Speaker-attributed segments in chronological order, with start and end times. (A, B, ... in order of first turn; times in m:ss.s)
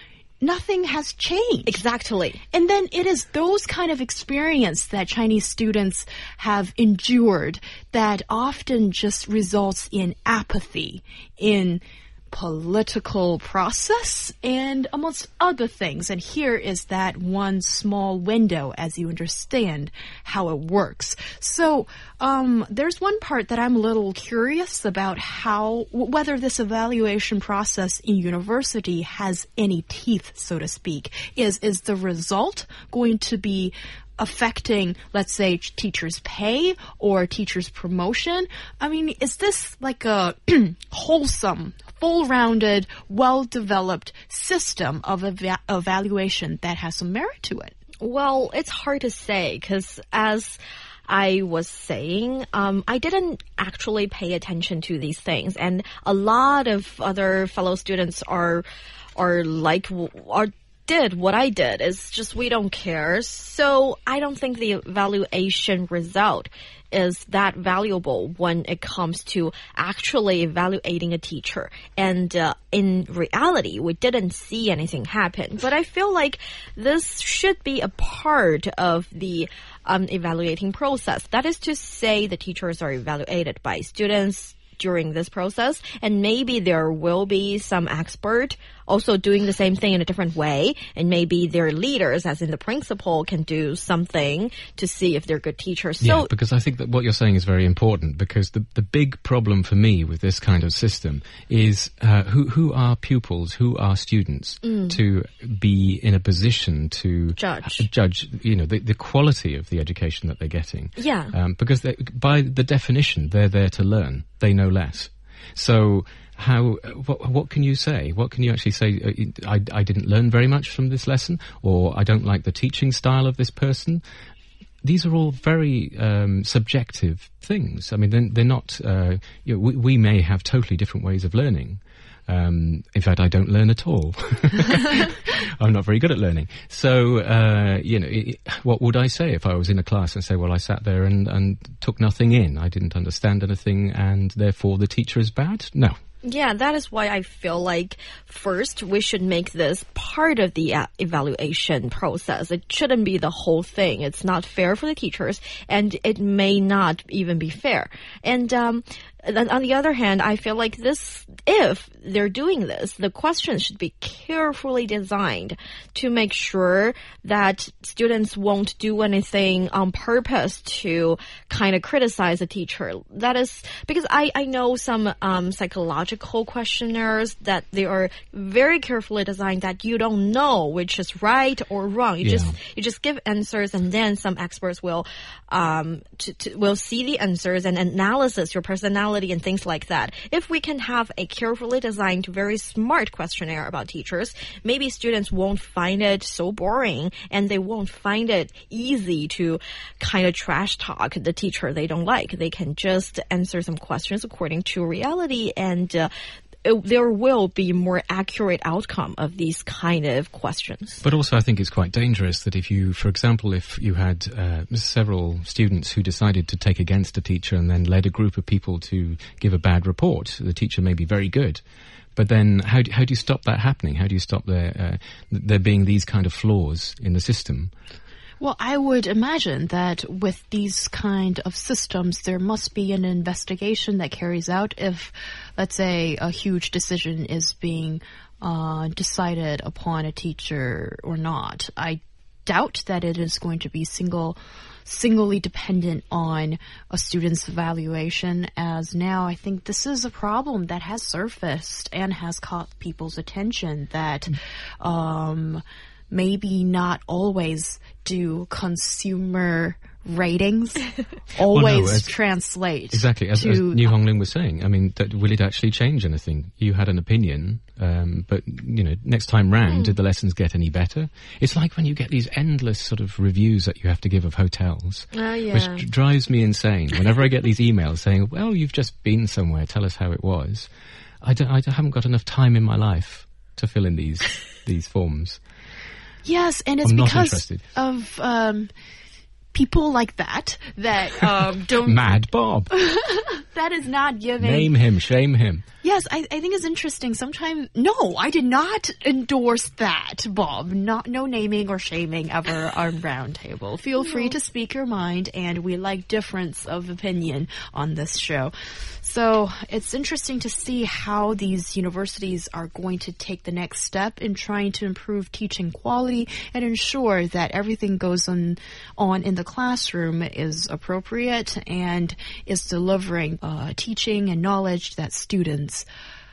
0:00.4-0:01.8 A
0:01.7-0:02.4 B
0:02.5-0:47.7 A
0:48.0-0:58.6 B
0:59.2-1:36.3 B
1:36.0-2:04.0 C
1:44.6-1:45.0 B
1:47.4-1:47.9 B
1:51.0-1:51.3 B
2:04.8-2:25.9 C
2:26.2-3:26.1 B
3:02.2-3:02.6 C
3:26.6-3:31.0 B
3:31.0-3:41.6 C
3:42.2-3:47.7 C
3:48.4-4:23.8 A
4:21.4-4:22.1 C
4:22.9-4:40.7 C
4:29.7-4:29.9 B
4:35.1-4:35.8 B
4:41.2-4:45.4 C
4:46.2-4:48.7 A
4:46.8-4:47.6 C
4:49.5-4:52.2 A
4:51.8-4:52.7 C
4:52.7-4:54.7 A
4:54.4-4:55.6 C
4:55.8-5:25.8 A